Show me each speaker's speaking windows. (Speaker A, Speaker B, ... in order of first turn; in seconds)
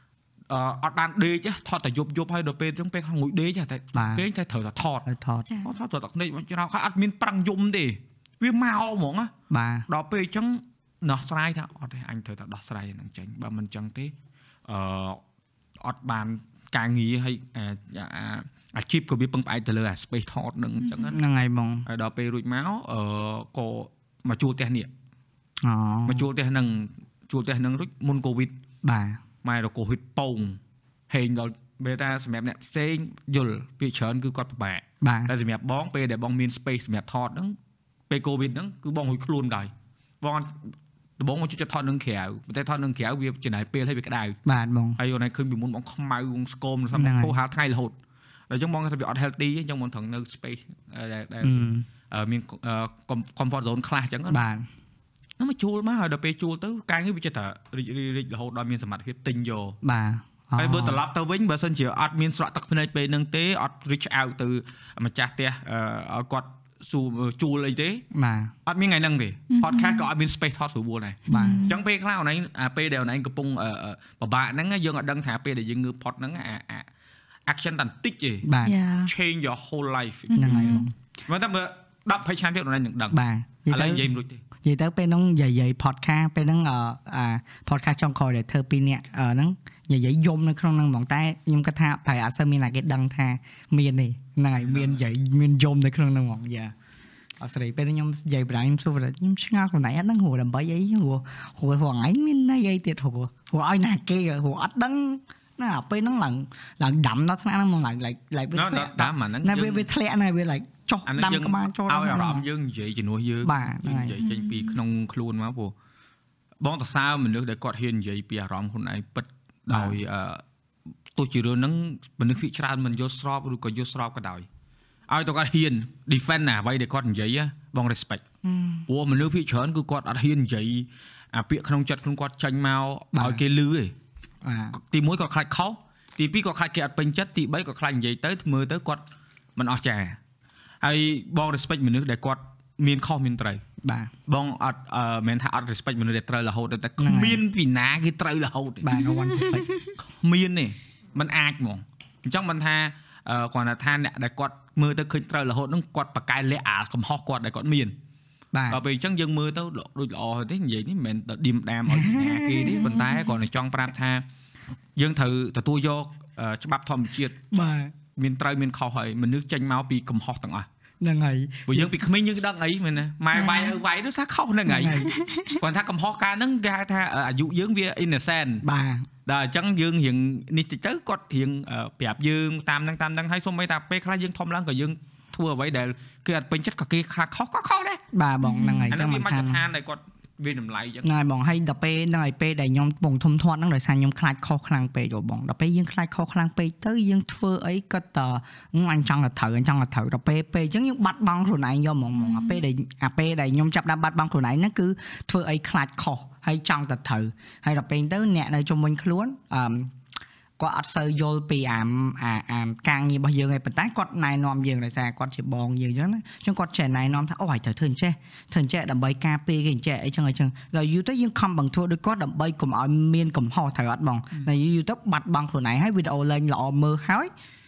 Speaker A: 0.5-5.1, 5.6-9.3, 9.9-14.1, 14.7-15.2, 15.8-21.2, 21.9-24.9, 26.1-28.5, 29.4-30.6, 31.1-37.5, 38.1-40.6, 41.2-44.4, 45.0-47.9, 48.5-54.4, 55.4-59.8, 60.5-68.0, 68.7-76.9, 77.5-78.5, 79.0-83.2, 83.7-84.4, 94.6-95.0, 108.5-109.9, 111.0-115.7, 116.6-120.4, 121.1-124.5, 125.1-128.2, 128.9-133.9, 134.7-139.0, 139.6-140.2, 140.8-143.6, 144.3-148.9, 150.0-158.0, 158.7-164.2, 164.9-167.4, 168.1-170.7, 171.7-178.6, 179.2-188.0, 188.9-191.1
Speaker B: 3.9-4.2, 5.0-5.5, 9.5-9.9, 21.1-21.9, 25.6-26.3, 28.8-29.2, 35.0-35.3, 44.5-45.0, 46.9-47.3, 51.4-51.9, 54.3-54.7, 59.8-61.0, 68.1-68.5, 71.3-71.7, 78.4-78.7, 80.3-80.9, 83.1-84.1, 84.6-96.7, 97.4-112.4, 113.4-114.2, 119.7-120.0, 128.4-128.8, 133.1-133.4, 134.4-134.8, 143.8-144.1, 147.0-147.4, 148.8-149.7, 158.5-158.8, 161.9-162.9, 167.5-167.9, 171.0-171.9, 174.7-175.1, 178.6-179.1, 188.1-189.6, 191.0-209.9, 210.6-227.3
Speaker C: 69.5-70.1, 71.3-71.8, 78.6-79.1, 80.3-80.8, 114.2-114.7, 148.9-149.9, 162.8-163.2, 173.3-173.8, 175.1-175.6, 188.4-188.9, 202.1-202.6